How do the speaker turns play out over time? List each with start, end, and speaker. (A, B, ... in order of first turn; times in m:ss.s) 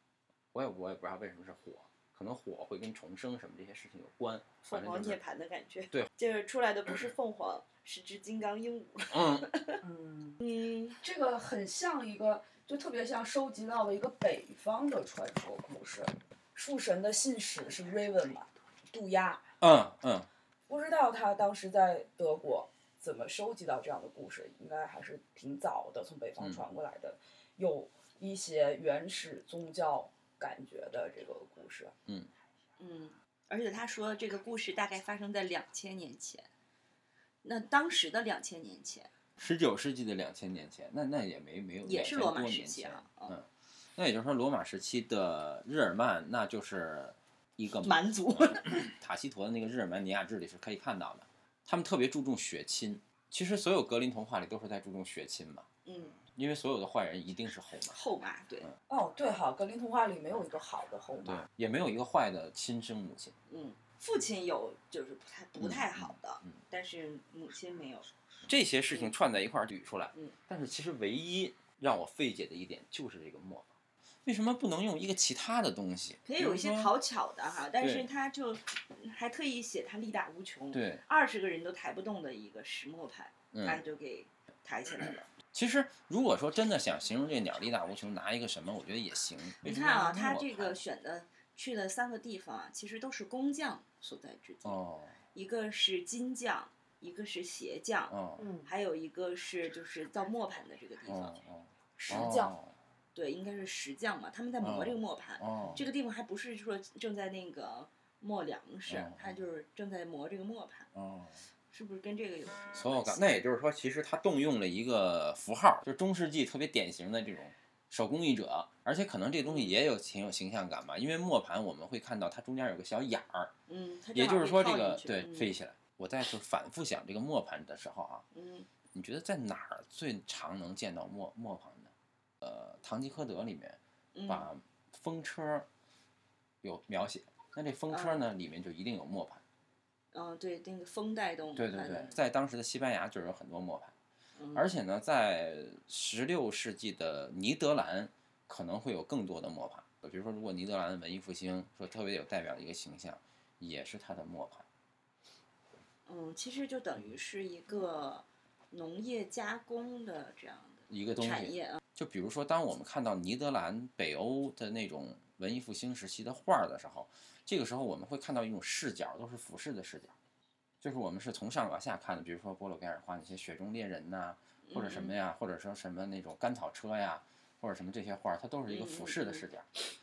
0:00.5-0:05.2 A
0:04.6-0:09.8 B
0:09.1-0:09.5 A
0:09.8-0:10.4 C
0:10.4-0:11.0 B
0:11.0-0:19.4 C
0:19.6-0:20.3 A
0:20.7-0:31.9 C
0:26.4-0:26.6 A
0:32.8-0:36.5 B
0:37.4-0:39.1 B
0:39.4-0:55.7 A
0:41.8-0:43.4 B
0:47.8-0:48.9 B
0:55.8-0:56.2 B
0:56.2-0:58.0 A
0:57.9-0:58.7 B
0:58.9-1:01.4 C
1:01.2-1:03.3 A
1:03.5-1:08.1 B
1:05.6-1:06.1 A
1:08.5-1:13.7 A
1:14.2-1:16.9 A
1:16.2-1:25.3 B
1:17.8-1:18.1 A
1:20.7-1:21.0 A
1:23.5-1:23.8 A
1:25.5-1:30.8 A
1:29.6-1:34.8 B
1:34.6-1:35.2 A
1:35.3-1:41.3 B
1:38.1-1:38.5 A
1:41.1-1:42.7 A
1:42.0-1:42.5 C
1:43.1-1:50.9 B
1:44.6-1:45.8 A
1:48.9-1:49.3 A
1:50.9-1:51.4 A
1:51.7-1:53.4 B
1:52.7-2:03.5 A
1:59.4-1:59.7 B
2:03.7-2:05.5 B
2:04.1-2:08.2 A
2:08.3-2:08.7 B
2:08.9-2:11.9 A
2:12.4-2:15.6 A
2:14.1-2:14.5 B
2:16.6-2:19.4 A
2:17.9-2:18.2 B
2:20.1-2:22.2 B
2:21.6-2:23.9 A
2:24.4-2:24.7 B
2:24.5-2:34.6 A
2:36.0-2:41.8 B
2:40.9-2:50.1 A
2:50.8-2:59.7 A
2:54.7-2:55.1 B
2:58.7-2:59.4 B